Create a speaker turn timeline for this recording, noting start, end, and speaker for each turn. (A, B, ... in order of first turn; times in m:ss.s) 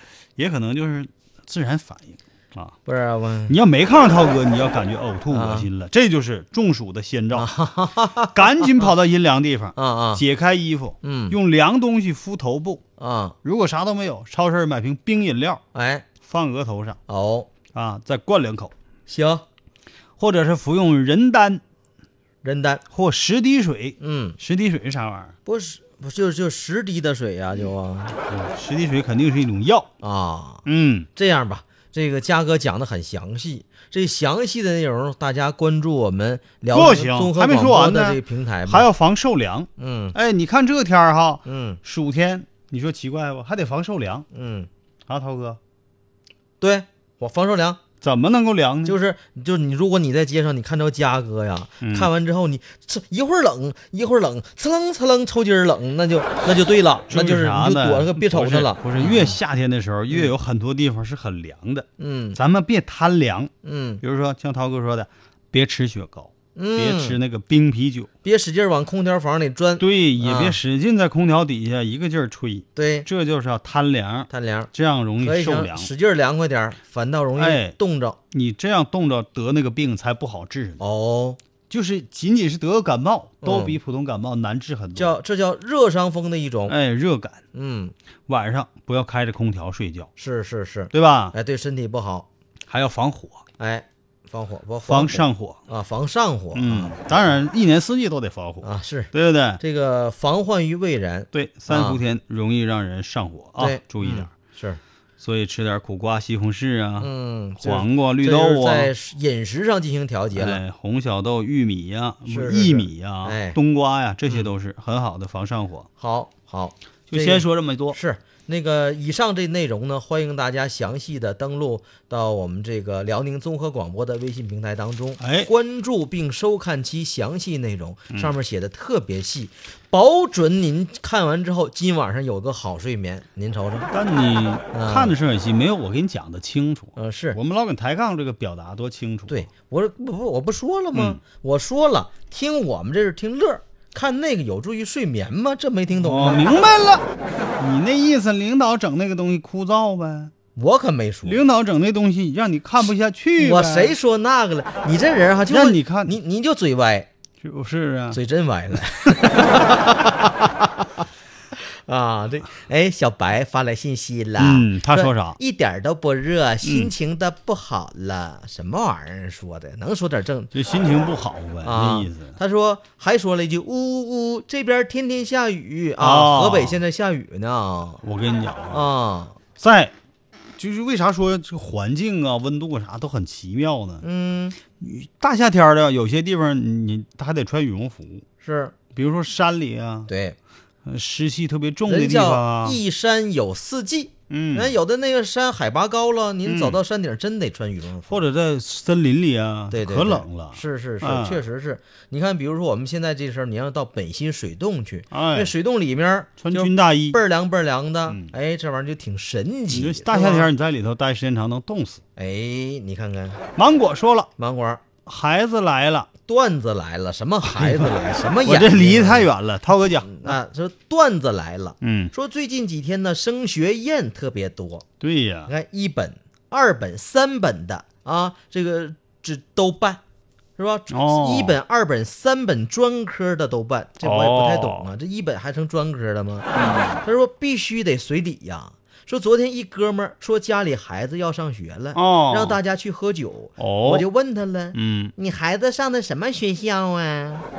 0:00.4-0:02.8 A
0:02.8-0:03.6 B
0:03.5-0:07.5 A
0:05.3-0:05.7 B
0:07.3-0:08.9 B
0:08.3-0:12.8 A
0:09.7-0:10.2 B
0:11.0-0:11.4 B
0:13.0-0:13.4 B
0:13.4-0:15.6 A
0:15.7-0:16.0 B
0:16.2-0:17.0 A
0:17.1-0:17.5 B
0:17.7-0:18.7 A
0:19.1-0:19.4 B
0:20.2-0:21.6 A
0:22.4-0:22.8 B
0:22.9-0:25.3 A
0:24.0-0:24.4 B
0:25.4-0:28.1 B
0:28.3-0:29.9 A
0:30.0-0:30.6 B
0:30.6-0:31.1 A
0:31.2-0:38.9 B
0:36.7-0:44.2 A
0:39.8-0:40.1 B
0:41.4-0:41.8 B
0:44.3-0:44.7 B
0:45.1-0:45.6 A
0:46.6-0:47.8 B
0:48.0-0:49.0 A
0:48.8-0:59.4 B
0:51.8-0:52.1 A
0:57.1-1:08.1 A
1:02.0-1:02.4 B
1:03.6-1:04.0 B
1:06.6-1:07.2 B
1:08.2-1:10.6 B
1:09.8-1:15.9 A
1:12.8-1:13.1 B
1:14.3-1:18.2 B
1:17.4-1:17.8 A
1:18.3-1:20.8 A
1:20.8-1:21.4 B
1:21.7-1:25.1 A
1:23.4-1:23.8 B
1:25.0-1:26.8 B
1:26.7-1:27.4 A
1:27.5-1:27.9 B
1:28.3-1:30.1 A
1:30.2-1:32.3 B
1:30.9-1:31.3 A
1:32.7-1:33.4 A
1:33.6-1:37.0 B
1:34.8-1:35.6 A
1:36.5-1:39.6 A
1:38.6-1:42.0 B
1:41.3-1:44.3 A
1:43.6-1:44.8 B
1:45.2-1:48.9 A
1:47.0-1:50.6 B
1:50.3-1:55.9 A
1:52.3-1:53.6 B
1:56.0-2:13.9 B
1:57.1-1:58.0 A
2:05.2-2:05.5 A
2:13.9-2:19.5 A
2:14.7-2:15.1 B
2:17.0-2:17.4 B
2:19.3-2:26.5 B
2:20.9-2:21.2 A
2:25.9-2:27.0 A
2:27.6-2:30.3 A
2:30.6-2:31.4 B
2:31.2-2:33.9 A
2:33.4-2:37.1 B
2:35.5-2:36.2 A
2:37.4-2:38.2 A
2:38.1-2:40.7 B
2:41.6-2:50.5 B
2:44.4-2:45.4 A
2:46.6-2:46.9 A
2:50.5-2:52.4 A
2:51.6-2:58.0 B
2:56.0-2:56.8 A
2:58.0-2:58.8 A
2:58.7-2:59.4 B
2:59.6-2:59.9 A
3:00.6-3:04.0 A
3:04.0-3:04.6 B
3:04.8-3:08.2 A
3:08.4-3:08.7 B
3:08.9-3:10.1 A
3:10.1-3:10.4 B
3:10.8-3:12.8 A
3:11.9-3:18.2 B
3:14.3-3:14.8 A
3:16.4-3:16.8 A
3:18.1-3:21.4 A
3:19.7-3:30.5 B
3:25.1-3:25.5 A
3:26.4-3:27.2 A
3:28.1-3:28.3 A
3:29.7-3:32.0 A
3:32.2-3:33.4 B
3:33.6-3:34.3 A
3:34.4-3:34.8 B
3:35.0-3:36.1 A
3:36.3-3:39.3 B
3:37.4-3:40.4 A
3:40.0-3:44.8 B
3:41.8-3:42.1 A
3:45.0-3:45.5 A
3:45.5-3:50.0 B
3:50.6-3:56.5 B
3:50.9-3:51.6 A
3:54.0-3:54.9 A
3:56.5-3:57.0 A
3:57.0-4:07.4 B
4:01.9-4:02.6 A
4:03.6-4:04.0 A
4:04.7-4:05.1 A